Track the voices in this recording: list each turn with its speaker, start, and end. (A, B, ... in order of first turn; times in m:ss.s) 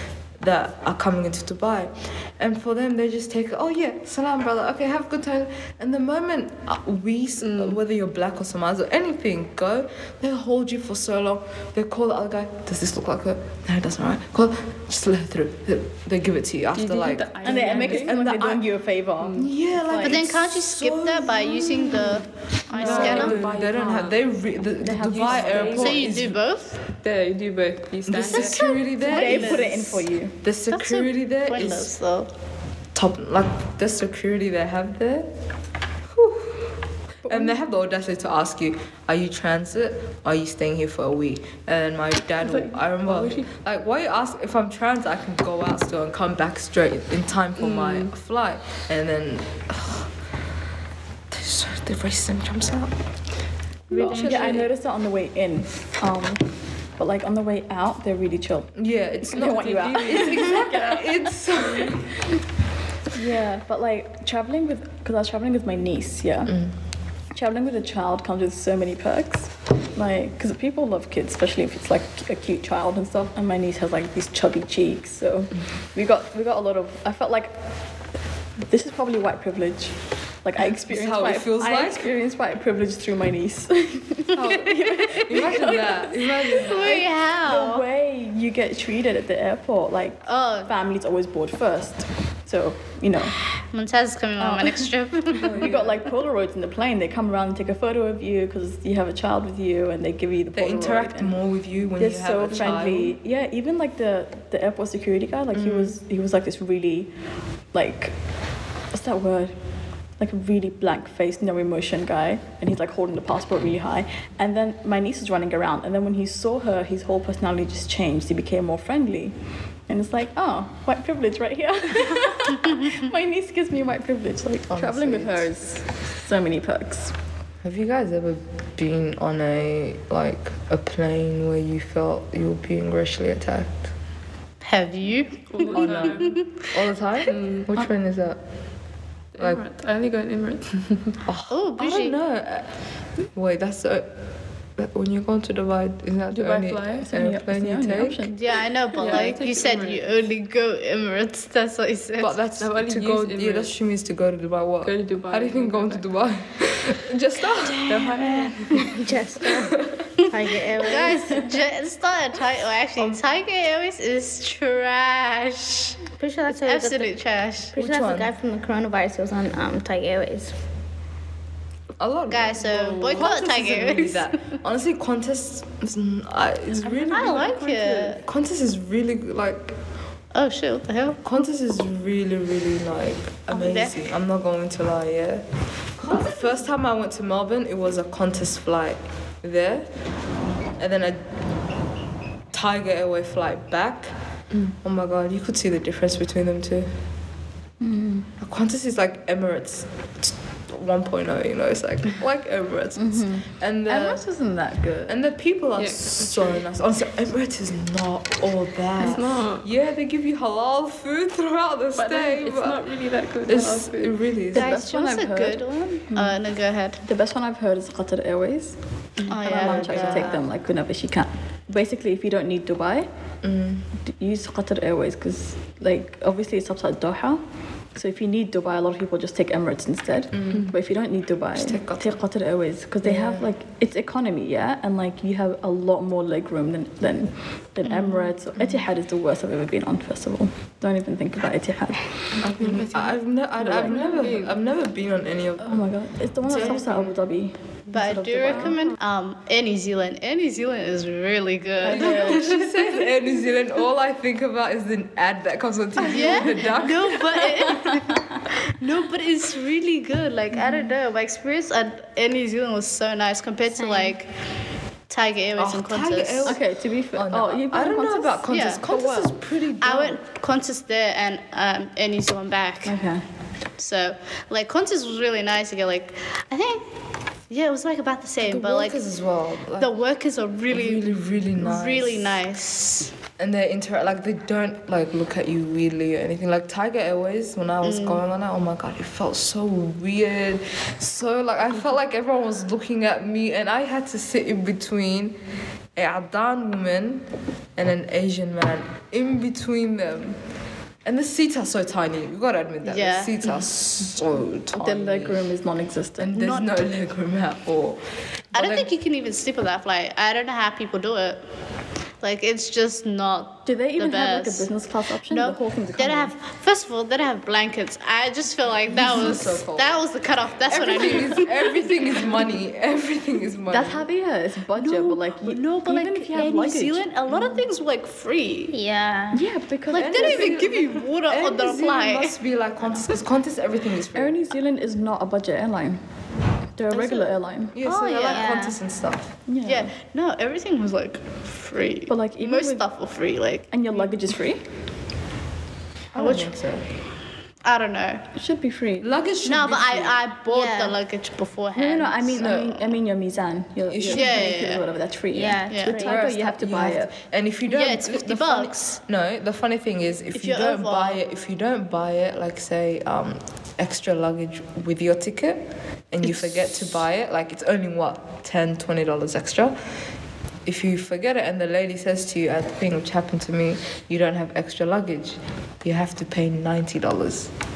0:00.4-0:18.6 A
0:07.4-0:07.8 B
0:16.7-0:18.2 B
0:17.4-0:20.2 C
0:19.2-0:19.5 B
0:19.4-0:22.2 A
0:20.0-0:23.4 D
0:22.7-0:24.2 B
0:22.8-0:26.4 A
0:24.8-0:26.0 C
0:25.0-0:26.0 B
0:25.7-0:26.8 D
0:27.0-0:28.6 B
0:28.1-0:31.9 A
0:28.1-0:29.7 D
0:29.0-0:30.3 C
0:30.7-0:32.3 D
0:32.9-0:35.3 A
0:36.1-0:36.7 A
0:37.2-0:37.6 C
0:37.3-0:50.1 A
0:42.4-0:43.5 B
0:47.6-0:48.1 B
0:51.3-0:52.9 A
0:53.9-0:54.7 A
0:53.9-0:56.5 C
0:53.9-0:54.6 B
0:57.0-0:58.7 C
0:58.8-1:02.1 A
0:59.2-1:01.0 C
0:59.4-1:01.0 B
1:03.1-1:06.5 C
1:07.3-1:17.5 C
1:18.7-1:26.1 C
1:20.9-1:22.1 A
1:24.4-1:25.7 D
1:24.6-1:27.1 A
1:26.5-1:27.8 D
1:26.7-1:33.4 C
1:30.2-1:30.7 D
1:33.7-1:35.7 D
1:34.4-1:34.9 C
1:35.4-1:36.0 A
1:35.5-1:41.4 C
1:40.5-1:43.1 A
1:42.0-1:47.1 C
1:45.5-1:45.9 A
1:47.7-1:48.1 C
1:48.9-1:49.6 C
1:50.2-1:59.3 C
1:59.9-2:07.2 C
2:04.7-2:05.5 A
2:07.6-2:13.9 A
2:14.6-2:16.5 D
2:15.5-2:16.4 B
2:15.8-2:16.1 A
2:16.7-2:18.4 A
2:17.3-2:17.7 B
2:19.3-2:21.2 B
2:21.2-2:22.7 A
2:21.5-2:22.2 D
2:23.3-2:24.1 A
2:24.8-2:28.3 A
2:26.3-2:27.2 B
2:27.0-2:28.4 C
2:28.3-2:32.4 D
2:29.0-2:30.1 B
2:32.2-2:40.1 A
2:32.6-2:33.7 B
2:34.8-2:36.0 B
2:38.0-2:41.4 E
2:40.7-2:47.7 D
2:46.2-2:47.1 E
2:47.7-2:50.5 E
2:47.8-2:48.3 A
2:52.0-2:57.6 A
2:52.3-2:54.4 D
2:52.9-2:53.1 B
2:56.8-2:58.2 B
2:57.1-2:58.2 D
2:58.2-2:59.8 A
3:00.3-3:01.2 D
3:01.2-3:05.4 A
3:03.5-3:04.0 D
3:06.0-3:09.9 A
3:10.8-3:11.2 A
3:12.5-3:14.1 A
3:14.8-3:16.9 A
3:17.8-3:18.3 C
3:18.4-3:24.2 A
3:23.0-3:25.2 C
3:25.1-3:32.8 A
3:25.8-3:26.6 B
3:29.0-3:29.7 B
3:32.0-3:34.2 B
3:33.5-3:34.8 A
3:34.5-3:36.4 C
3:34.5-3:37.0 D
3:37.0-3:38.8 C
3:39.2-3:40.4 D
3:39.3-3:43.1 C
3:39.4-3:40.4 A
3:43.4-3:43.8 A
3:44.0-3:47.4 C
3:47.9-4:02.4 C
3:50.3-3:50.7 A
3:51.5-3:52.2 A
3:53.0-3:53.5 A
4:02.4-4:04.6 B
4:02.4-4:05.9 A
4:05.6-4:08.8 C
4:06.4-4:07.1 A
4:06.5-4:06.8 D
4:07.9-4:12.7 D
4:11.8-4:12.7 C
4:11.8-4:17.4 A
4:16.0-4:24.3 D
4:17.7-4:18.2 C
4:23.7-4:24.1 E
4:25.1-4:26.6 D
4:25.6-4:26.6 A
4:26.4-4:29.3 C
4:27.1-4:30.2 A
4:28.5-4:28.8 D
4:29.8-4:33.0 D
4:32.8-4:33.2 C
4:33.8-4:36.8 D
4:37.5-4:39.0 D
4:38.4-4:39.9 A
4:39.8-4:43.1 D
4:40.7-4:42.4 A
4:43.4-4:55.4 A
4:47.8-4:48.2 D
4:56.0-5:00.4 A
5:01.0-5:05.4 A
5:02.8-5:03.6 D
5:04.7-5:06.4 C
5:06.2-5:08.0 A
5:06.3-5:06.7 D
5:08.5-5:08.9 A
5:08.5-5:11.4 D
5:12.2-5:14.7 D
5:13.6-5:16.3 C
5:15.3-5:21.8 D
5:18.9-5:20.0 A
5:20.7-5:24.0 A
5:20.7-5:21.4 C
5:23.7-5:27.6 C
5:24.8-5:28.7 D
5:28.7-5:29.5 E
5:29.3-5:30.6 C
5:29.9-5:32.3 D
5:29.9-5:34.3 A
5:34.1-5:36.0 C
5:36.8-5:37.8 C
5:36.9-5:38.6 D
5:37.7-5:39.3 A
5:38.3-5:38.8 E
5:39.5-5:39.9 C
5:39.6-5:43.7 D
5:42.1-5:42.8 C
5:43.7-5:44.6 C
5:46.1-5:46.8 A
5:46.1-5:46.5 D
5:47.6-5:48.2 D
5:48.3-5:49.1 C
5:49.0-5:50.2 A
5:49.4-5:53.0 D
5:50.5-5:50.9 E
5:51.7-5:57.1 C
5:52.4-5:52.7 A
5:53.9-5:54.5 A
5:54.1-5:54.8 D
5:55.3-5:56.2 E
5:55.7-5:56.1 D
5:56.0-6:09.8 A
5:57.7-5:59.0 D
6:00.3-6:01.2 D
6:10.6-6:17.5 A